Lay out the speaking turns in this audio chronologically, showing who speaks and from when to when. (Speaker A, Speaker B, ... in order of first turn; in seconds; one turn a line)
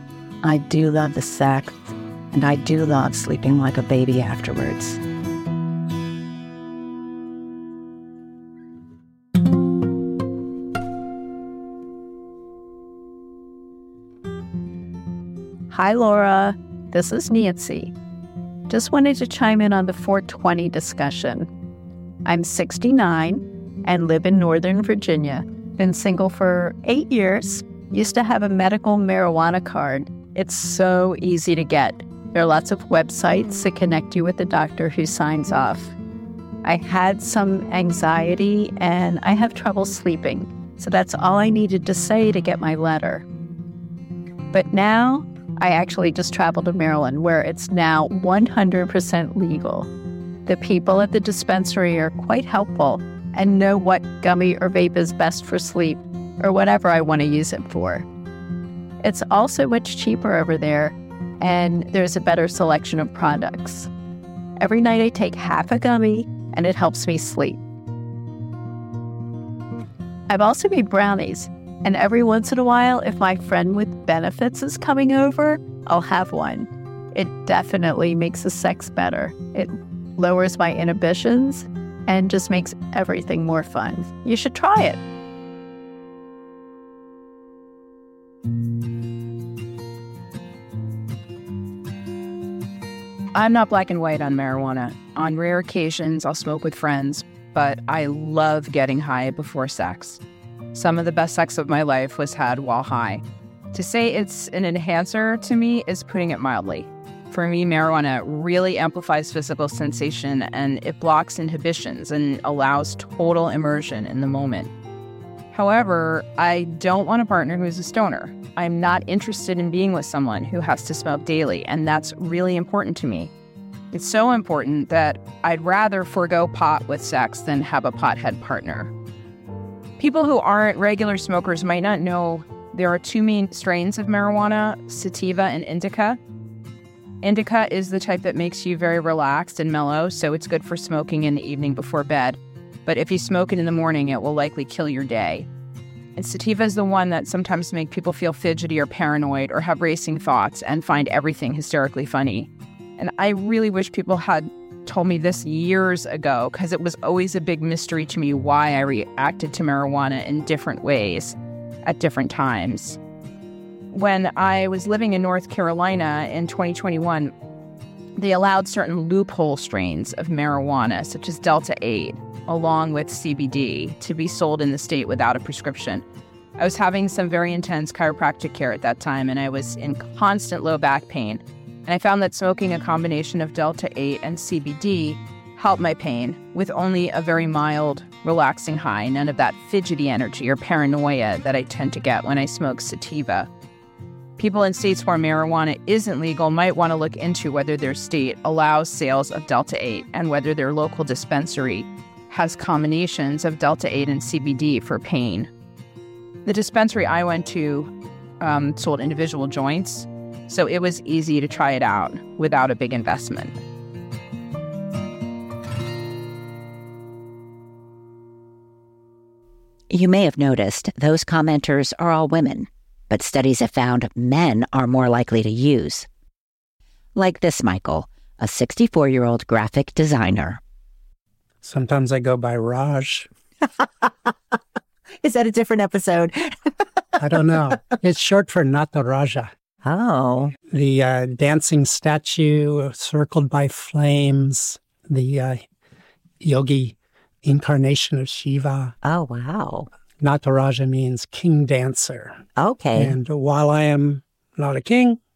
Speaker A: 0.4-5.0
Speaker B: 15.7-17.9
Speaker B: 18.7-21.5
Speaker B: 22.2-35.9
Speaker B: 36.6-43.2
Speaker B: 44.5-49.9
Speaker B: 50.5-58.0
Speaker B: 59.0-63.9
Speaker B: 64.6-67.6
Speaker B: 70.3-85.0
Speaker C: 93.3-100.2
Speaker C: 100.7-114.7
Speaker C: 115.5-123.3
Speaker C: 123.9-128.9
Speaker C: 130.0-136.2
Speaker C: 137.2-145.4
Speaker C: 146.2-163.0
Speaker C: 163.9-167.3
Speaker C: 168.2-176.0
Speaker C: 176.6-193.5
Speaker C: 194.4-205.5
Speaker C: 206.4-213.6
Speaker D: 219.9-226.1
Speaker D: 227.2-230.6
Speaker E: 231.6-233.3
Speaker D: 234.0-234.3
Speaker D: 235.2-237.5
Speaker E: 237.2-239.5
Speaker D: 239.8-240.5
Speaker E: 240.6-245.6
Speaker E: 246.4-248.9
Speaker D: 249.0-249.9
Speaker E: 250.2-252.4
Speaker D: 252.6-253.2
Speaker E: 252.9-255.2